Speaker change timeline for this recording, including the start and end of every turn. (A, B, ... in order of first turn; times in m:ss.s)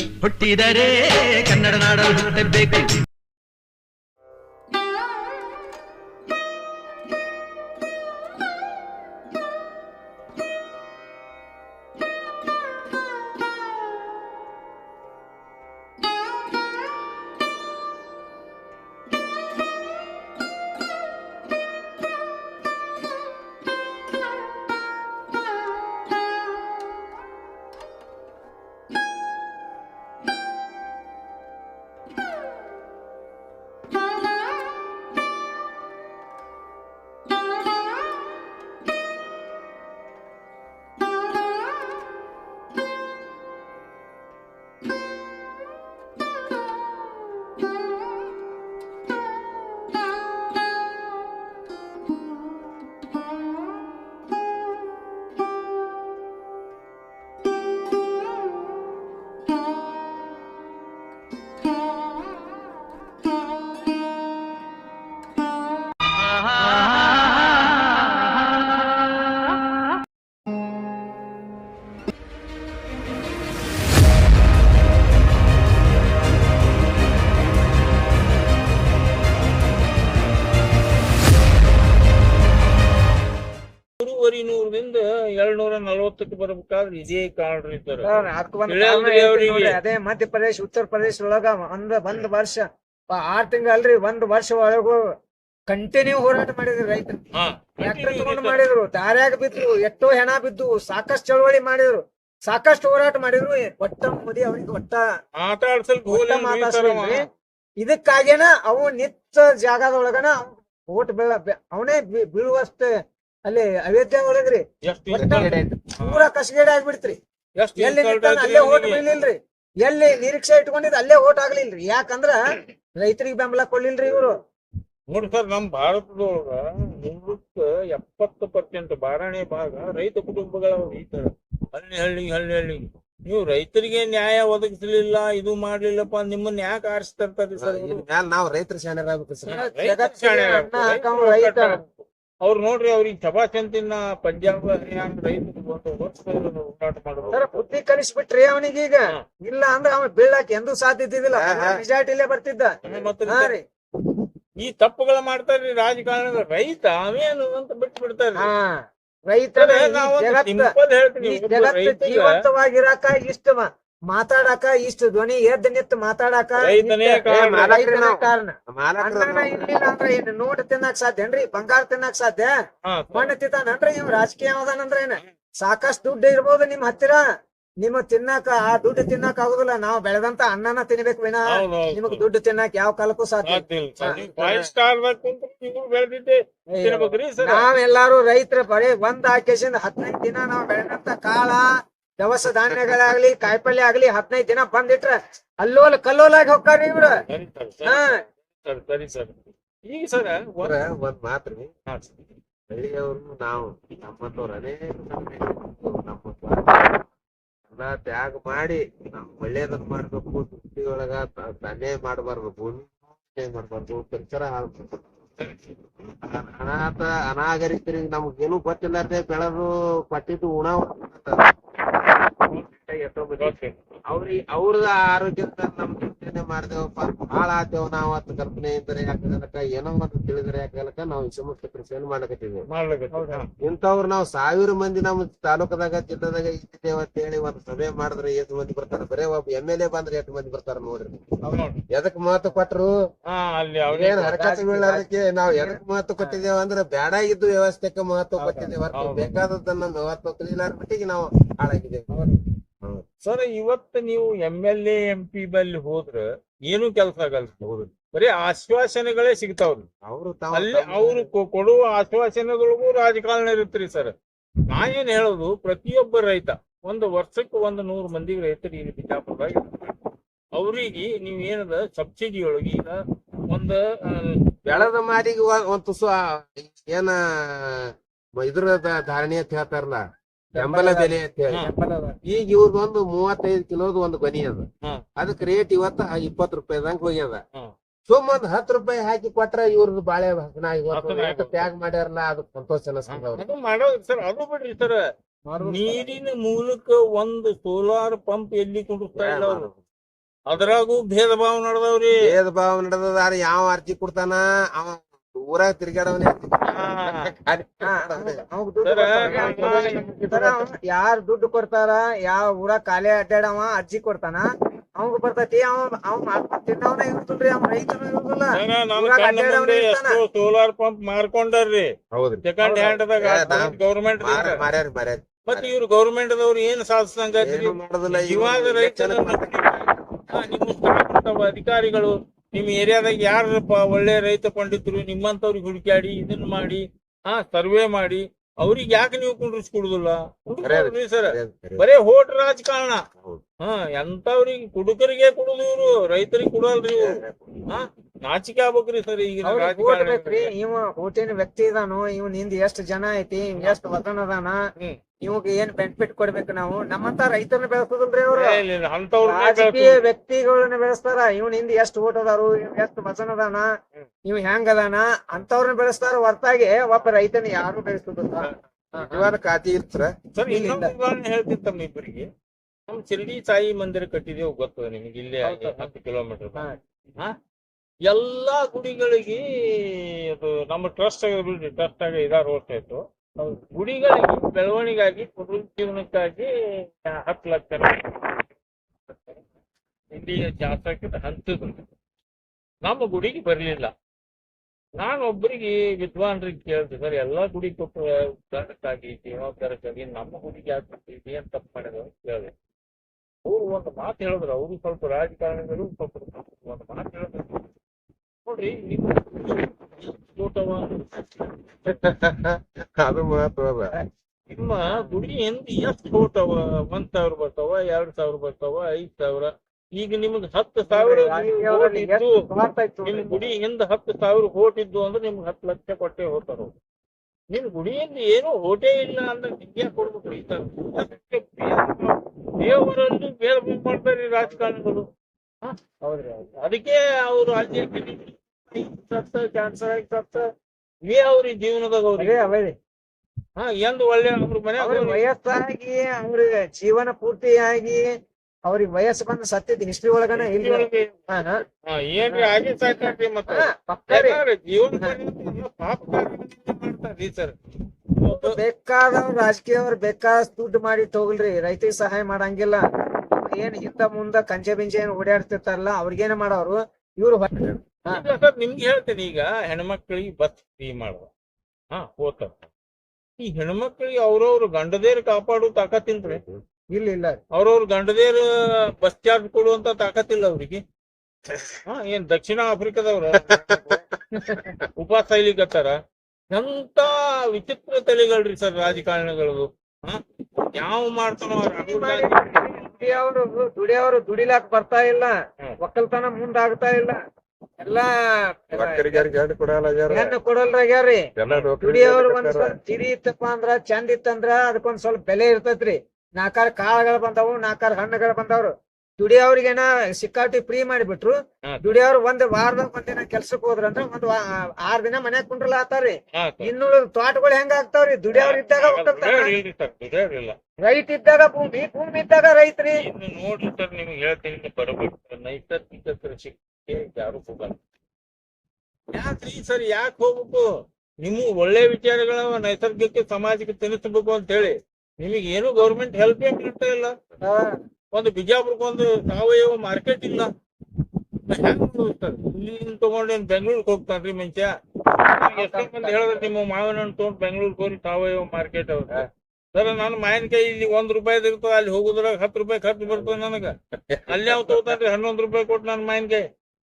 0:00.2-0:03.0 A
1:24.0-1:29.8 B
1:28.0-1:35.0 C
1:35.7-1:37.2 C
1:37.4-1:38.6 B
1:37.8-1:45.0 C
1:45.4-1:47.3 B
1:46.1-1:47.3 C
1:47.8-1:52.9 C
1:53.5-1:57.2 C
1:54.8-1:56.3 B
1:55.2-1:55.8 D
1:57.6-1:59.2 B
1:57.8-2:02.4 C
2:03.0-2:04.4 C
2:05.1-2:18.0 B
2:17.6-2:19.6 D
2:19.5-2:27.6 B
2:19.5-2:21.8 C
2:27.3-2:32.8 C
2:31.3-2:31.8 D
2:32.8-2:33.1 D
2:32.9-2:33.6 B
2:33.3-2:33.6 C
2:34.6-2:38.5 B
2:38.4-2:38.8 C
2:39.3-2:52.5 C
2:39.6-2:42.4 B
2:46.6-2:47.7 B
2:47.3-2:49.7 D
2:52.9-2:53.3 B
2:53.1-2:57.2 C
2:57.8-3:04.2 C
3:01.5-3:02.3 B
3:03.4-3:07.7 B
3:04.0-3:04.7 D
3:06.7-3:11.7 C
3:12.2-3:17.2 C
3:17.1-3:20.8 B
3:17.8-3:18.2 C
3:20.6-3:21.7 D
3:22.7-3:27.0 D
3:27.7-3:35.1 D
3:36.2-3:43.6 D
3:43.4-3:43.8 B
3:44.1-3:52.7 D
3:52.7-3:53.5 B
3:53.1-3:53.4 C
3:53.6-4:01.3 D
4:01.5-4:01.8 B
4:01.9-4:02.9 D
4:03.3-4:04.4 B
4:03.9-4:12.2 D
4:04.3-4:06.4 C
4:08.4-4:08.7 C
4:08.9-4:09.4 B
4:12.1-4:12.4 C
4:13.2-4:17.5 B
4:17.6-4:17.9 D
4:18.1-4:19.9 B
4:20.0-4:21.3 D
4:20.5-4:24.1 B
4:24.7-4:34.9 B
4:34.7-4:40.0 D
4:40.5-4:42.2 C
4:40.6-4:41.6 D
4:42.3-4:47.4 D
4:48.1-4:53.5 D
4:50.9-4:51.7 B
4:53.1-4:55.0 B
4:55.5-4:56.2 C
4:55.6-4:59.7 B
4:59.2-4:59.8 D
5:00.5-5:02.2 B
5:02.2-5:08.5 D
5:06.7-5:07.3 B
5:07.8-5:14.5 C
5:08.8-5:10.0 B
5:09.2-5:10.7 D
5:15.0-5:20.2 C
5:18.5-5:24.6 B
5:22.1-5:22.4 D
5:22.6-5:22.9 C
5:23.2-5:25.7 D
5:25.4-5:43.0 B
5:27.4-5:30.5 D
5:40.6-5:41.9 D
5:43.6-5:50.5 B
5:47.0-5:47.5 D
5:49.4-5:54.6 C
5:53.6-5:53.8 B
5:55.2-5:58.6 C
5:58.3-6:00.1 B
5:59.2-6:03.7 C
6:04.2-6:09.3 C
6:08.4-6:09.2 B
6:09.1-6:10.1 D
6:10.3-6:12.3 B
6:10.5-6:10.9 C
6:12.9-6:16.7 B
6:15.4-6:15.9 C
6:18.1-6:23.0 B
6:23.7-6:28.4 B
6:30.1-6:31.8 B
6:32.8-6:33.9 B
6:35.0-6:42.5 B
6:43.4-6:47.7 B
6:48.4-6:51.9 B
6:51.9-6:53.9 D
6:54.5-7:02.4 B
6:54.9-6:55.2 C
7:00.9-7:03.5 C
7:03.0-7:06.7 B
7:07.5-7:15.1 B
7:16.0-7:16.5 C
7:16.6-7:20.5 B
7:21.0-7:22.5 B
7:22.2-7:22.8 C
7:23.6-7:25.2 B
7:24.8-7:28.1 C
7:28.7-7:31.6 C
7:30.3-7:31.3 B
7:31.8-7:37.6 B
7:32.3-7:32.6 C
7:33.5-7:34.4 C
7:38.2-7:38.6 B
7:38.3-7:48.2 C
7:48.1-7:51.3 B
7:51.9-7:52.6 B
7:53.4-7:56.4 B
7:56.2-7:56.6 D
7:56.9-7:57.4 C
7:57.5-8:00.8 B
8:01.9-8:04.0 B
8:03.5-8:04.8 D
8:04.4-8:04.7 C
8:05.0-8:06.0 B
8:06.5-8:10.2 B
8:10.7-8:13.2 B
8:11.7-8:17.2 C
8:17.8-8:18.1 C
8:18.7-8:19.3 C
8:18.8-8:20.4 D
8:20.1-8:21.2 C
8:21.4-8:22.8 D
8:21.8-8:39.5 C
8:36.4-8:36.7 B
8:38.3-8:40.6 B
8:40.8-8:43.0 C
8:43.0-8:47.8 B
8:49.1-8:50.7 B
8:51.2-8:57.1 B
8:57.4-8:57.7 C
8:58.1-9:00.5 B
9:01.5-9:04.7 B
9:05.3-9:13.8 B
9:05.5-9:06.5 C
9:14.0-9:15.0 D
9:14.3-9:16.5 B